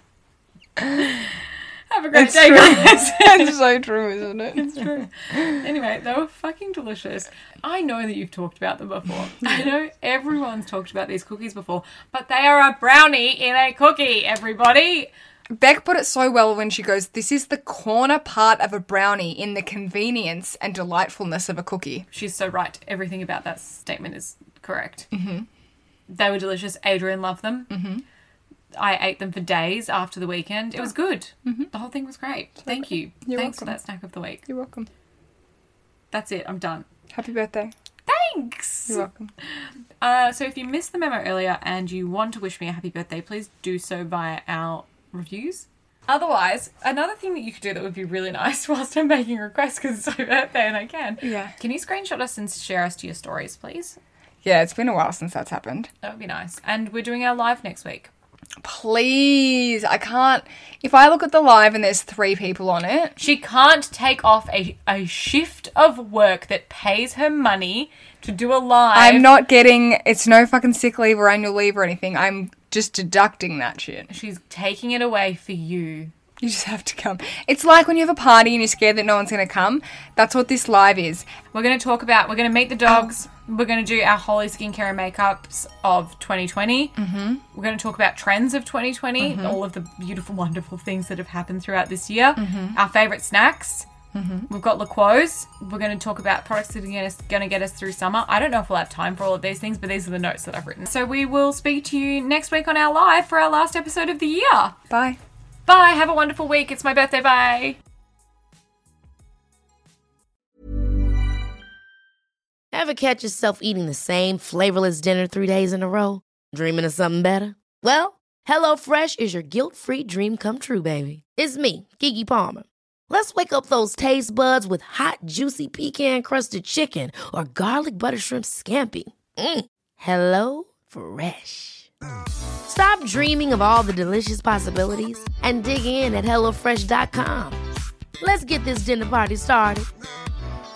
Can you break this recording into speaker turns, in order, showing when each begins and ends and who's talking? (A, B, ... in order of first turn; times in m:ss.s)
0:00.8-0:01.0 A
0:01.9-0:03.6 B
0:02.1-0:05.0 A
0:04.6-0:15.1 B
0:15.5-0:22.0 A
0:22.1-0:25.1 B
0:25.1-0:25.5 A
0:26.1-0:27.7 B
0:27.7-0:28.0 A
0:28.7-0:34.4 B
0:32.6-0:33.8 A
0:34.5-0:34.9 A
0:36.1-0:36.9 B
0:37.1-0:37.7 A
0:38.1-0:39.1 B
0:38.9-0:39.3 A
0:40.0-0:54.0 B
0:51.2-0:51.6 A
0:54.4-0:55.9 A
0:56.0-0:58.1 B
0:58.6-1:03.2 A
1:03.2-1:09.3 B
1:08.9-1:14.1 A
1:14.1-1:16.1 B
1:16.4-1:21.3 A
1:21.5-1:26.9 B
1:27.0-1:27.4 A
1:27.5-1:33.9 B
1:29.2-1:29.6 A
1:32.4-1:32.8 A
1:34.1-1:34.5 A
1:34.5-1:44.7 B
1:44.9-1:45.2 A
1:45.6-1:47.8 B
1:52.7-2:11.9 C
2:12.7-2:17.6 C
2:18.2-2:19.9 C